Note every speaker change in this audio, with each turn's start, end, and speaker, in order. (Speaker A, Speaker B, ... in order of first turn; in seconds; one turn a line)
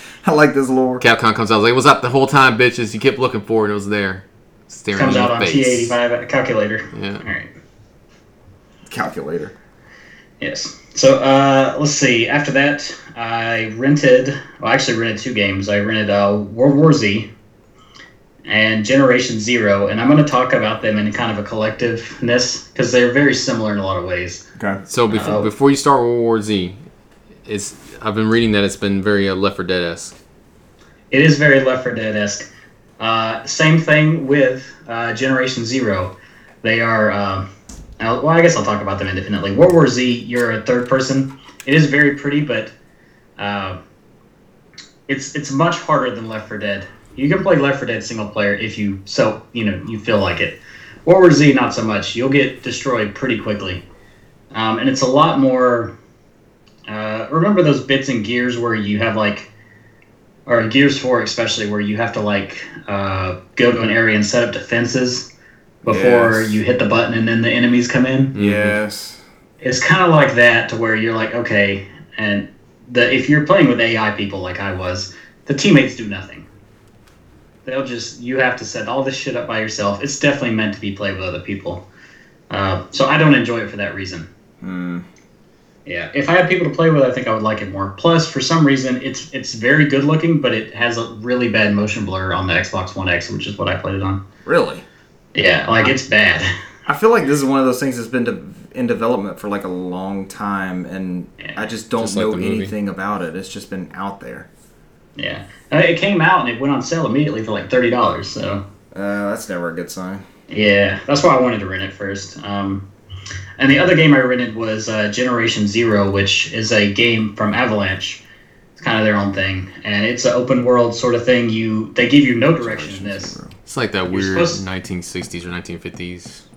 Speaker A: 0.2-1.0
Speaker B: 1.0-6.0
Speaker C: 4.9-7.5
Speaker B: 6.9-7.2
Speaker A: 8.9-9.5
Speaker C: 10.4-17.3
Speaker C: 18.4-24.4
Speaker B: 24.9-26.8
Speaker C: 25.1-25.5
Speaker B: 27.4-30.1
Speaker C: 31.1-32.5
Speaker C: 33.0-37.5
Speaker C: 38.0-42.7
Speaker C: 43.4-43.8
Speaker C: 45.1-53.8
Speaker C: 54.5-55.9
Speaker C: 56.9-59.5
Speaker C: 60.5-65.3
Speaker C: 65.8-68.3
Speaker A: 65.8-66.6
Speaker B: 68.3-68.8
Speaker A: 68.3-69.2
Speaker C: 69.6-76.5
Speaker C: 77.7-81.8
Speaker C: 82.5-84.3
Speaker A: 84.6-85.0
Speaker C: 85.8-94.2
Speaker A: 94.4-94.8
Speaker C: 95.3-96.5
Speaker A: 96.8-104.5
Speaker B: 102.0-102.7
Speaker C: 105.2-108.6
Speaker A: 108.9-110.2
Speaker C: 110.5-112.9
Speaker C: 113.6-118.2
Speaker C: 118.8-123.3
Speaker A: 122.6-123.5
Speaker B: 123.7-126.4
Speaker C: 124.1-124.6